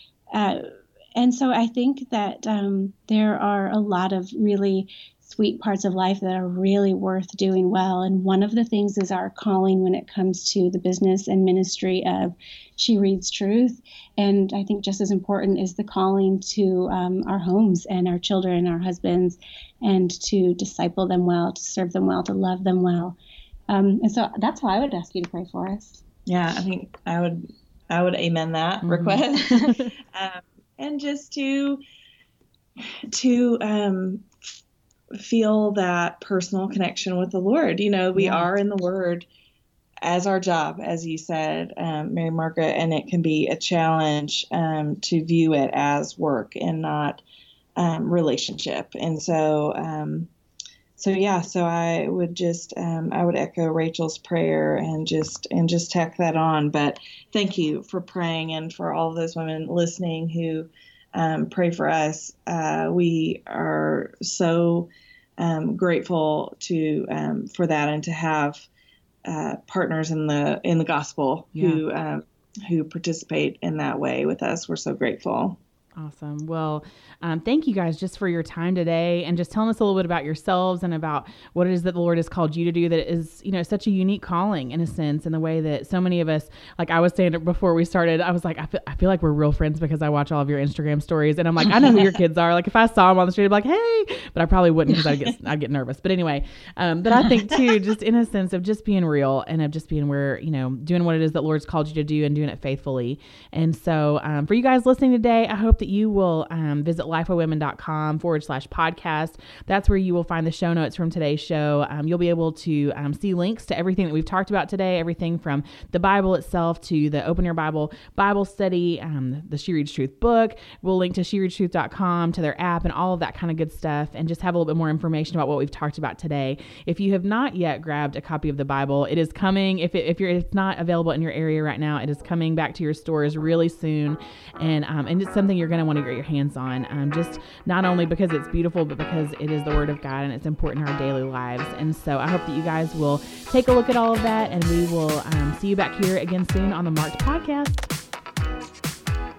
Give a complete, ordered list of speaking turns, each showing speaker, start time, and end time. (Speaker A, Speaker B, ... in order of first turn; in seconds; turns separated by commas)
Speaker A: 0.3-23.2, Speaker A: 23.7-26.0, Speaker B: 26.3-31.8, Speaker C: 28.8-29.9, Speaker B: 32.8-34.3, Speaker B: 35.2-39.3, Speaker C: 38.1-38.5, Speaker B: 40.0-47.2, Speaker B: 47.8-50.3, Speaker B: 51.0-68.7, Speaker B: 69.2-75.6, Speaker C: 71.5-71.8, Speaker C: 76.0-147.9